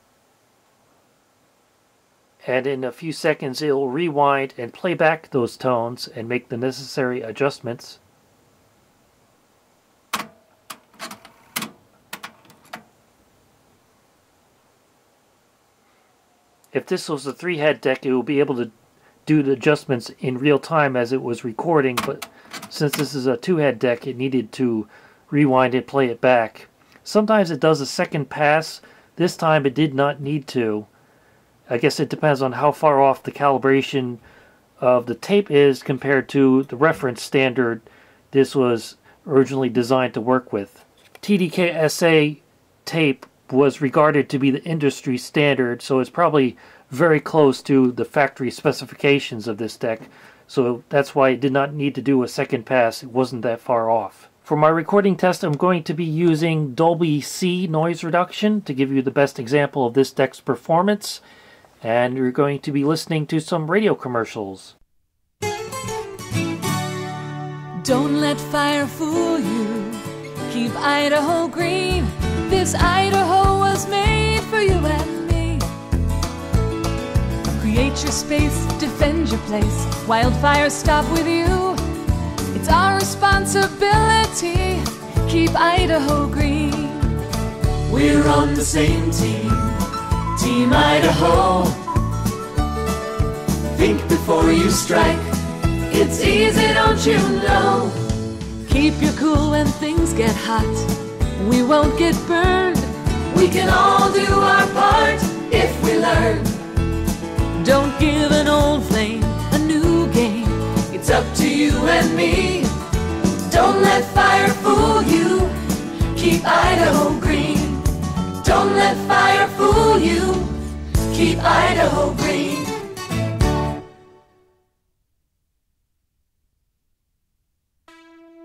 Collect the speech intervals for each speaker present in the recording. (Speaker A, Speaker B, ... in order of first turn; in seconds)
Speaker A: 2.4-8.0, 16.7-18.7, 19.2-30.9, 31.7-34.2, 34.8-61.2, 61.8-64.7
Speaker B: 67.8-75.7, 77.5-81.8, 82.5-87.1, 98.7-102.9, 107.6-110.5
Speaker C: 87.9-91.8, 93.7-95.3, 95.9-98.0, 103.3-106.6, 110.9-112.7, 113.5-115.5, 116.1-117.8, 118.4-120.5, 121.1-122.7